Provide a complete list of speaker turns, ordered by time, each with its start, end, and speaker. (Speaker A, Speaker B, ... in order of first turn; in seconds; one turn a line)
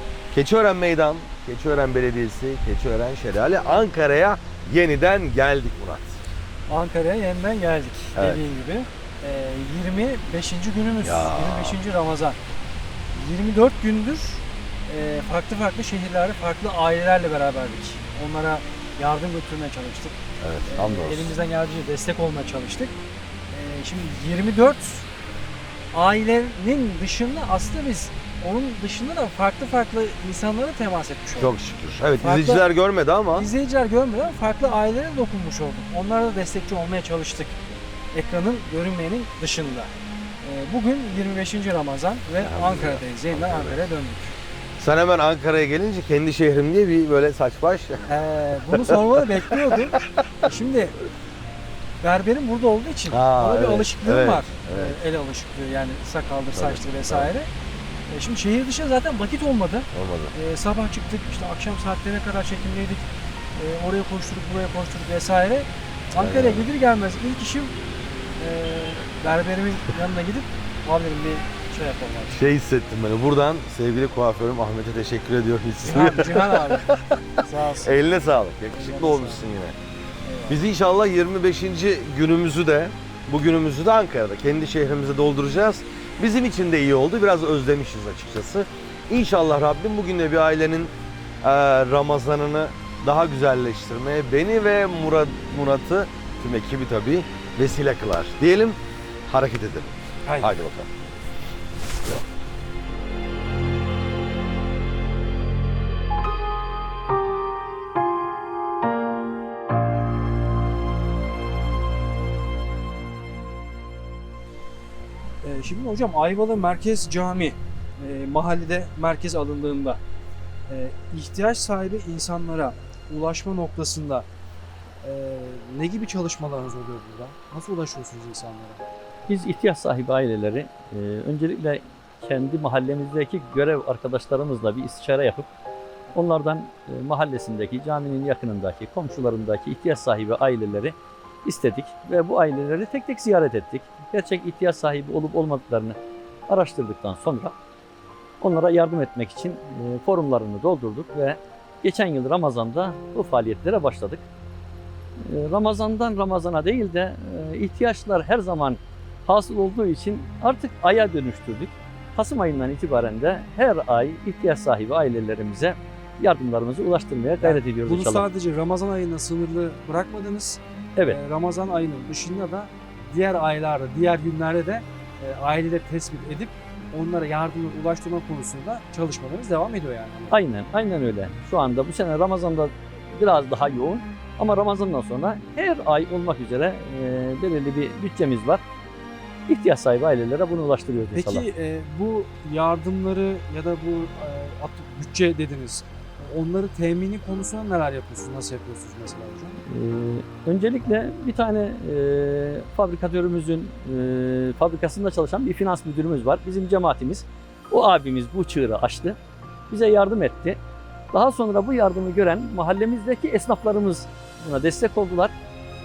Speaker A: 0.3-6.2
Speaker B: 6.7-12.4
Speaker A: 8.2-8.4
Speaker A: 11.0-11.8
Speaker B: 13.1-20.1
Speaker A: 20.4-21.3
Speaker B: 20.7-23.0
Speaker B: 23.5-25.1
Speaker B: 25.9-31.6
Speaker A: 31.4-33.5
Speaker B: 32.2-32.6
Speaker B: 33.3-37.6
Speaker B: 38.1-44.4
Speaker A: 42.4-43.8
Speaker A: 44.8-48.0
Speaker B: 48.1-51.0
Speaker A: 48.8-49.7
Speaker B: 52.0-57.5
Speaker A: 53.1-55.0
Speaker A: 56.5-57.3
Speaker B: 58.1-67.8
Speaker A: 59.9-60.3
Speaker A: 66.2-66.7
Speaker B: 68.4-72.4
Speaker A: 72.3-76.8
Speaker B: 75.8-78.0
Speaker A: 77.8-79.8
Speaker B: 78.7-79.5
Speaker B: 80.2-80.6
Speaker A: 80.5-100.9
Speaker B: 100.3-100.6
Speaker B: 115.4-120.0
Speaker B: 120.7-124.3
Speaker B: 125.0-128.8
Speaker C: 129.3-135.5
Speaker C: 136.2-146.0
Speaker C: 146.5-147.5
Speaker C: 148.4-154.2
Speaker C: 155.3-168.2
Speaker B: 167.4-180.5
Speaker C: 180.3-188.6
Speaker C: 189.5-191.4
Speaker B: 191.1-199.6
Speaker C: 199.7-209.2
Speaker C: 209.7-210.6
Speaker C: 211.1-215.3